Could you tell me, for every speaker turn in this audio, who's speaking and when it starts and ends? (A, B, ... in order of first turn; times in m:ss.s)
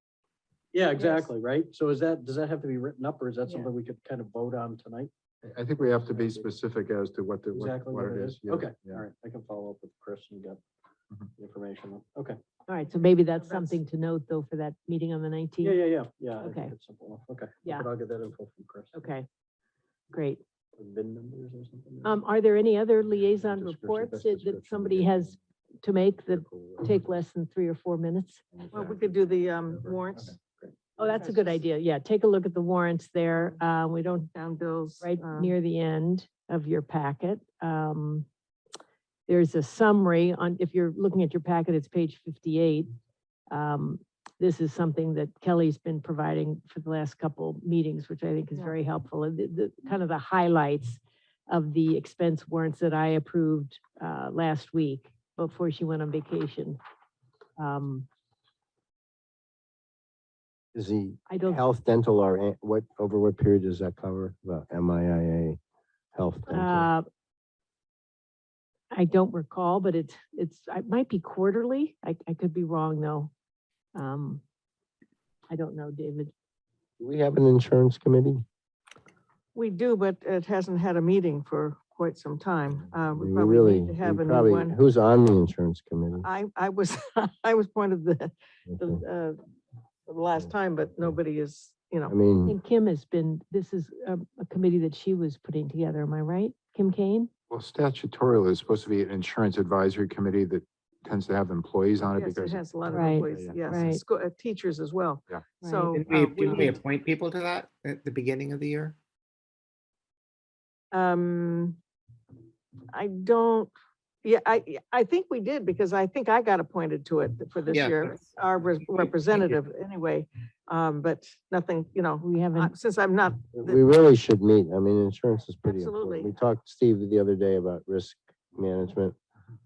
0:00.7-0:05.1 A
0:01.0-0:01.3 B
0:05.4-0:09.0 C
0:05.9-0:06.5 A
0:07.5-0:10.6 A
0:11.4-0:12.4 A
0:12.7-0:15.8 D
0:13.0-0:13.8 B
0:15.6-0:19.1 A
0:16.4-0:16.8 D
0:18.9-0:19.3 D
0:20.1-0:20.4 D
0:20.8-0:22.2 A
0:22.0-0:28.4 D
0:23.6-0:25.3 C
0:26.3-0:27.0 C
0:28.5-0:30.0 C
0:28.7-0:30.4 B
0:30.2-0:30.7 A
0:31.0-0:31.6 B
0:31.0-0:34.3 D
0:34.3-0:35.5 B
0:35.0-0:38.3 D
0:39.3-0:42.9 D
0:43.5-0:56.8 D
0:48.5-0:48.8 B
0:57.6-0:58.1 D
1:00.7-1:05.6 E
1:01.3-1:01.6 D
1:06.1-1:06.9 E
1:06.5-1:07.1 D
1:08.9-1:13.3 D
1:14.0-1:14.4 D
1:15.5-1:16.3 D
1:17.0-1:18.4 E
1:19.6-1:24.8 B
1:23.1-1:26.3 E
1:26.2-1:29.4 B
1:28.7-1:29.0 E
1:30.1-1:32.1 B
1:32.1-1:32.6 E
1:32.5-1:37.3 D
1:37.5-1:43.8 C
1:42.1-1:46.8 B
1:42.9-1:44.0 D
1:45.6-1:45.9 D
1:45.9-1:49.0 F
1:50.9-1:51.8 B
1:52.9-1:53.7 B
1:54.2-2:03.8 B
1:57.7-1:58.4 F
1:58.9-1:59.6 F
2:02.2-2:02.7 D
2:03.5-2:09.2 E
2:05.6-2:06.3 B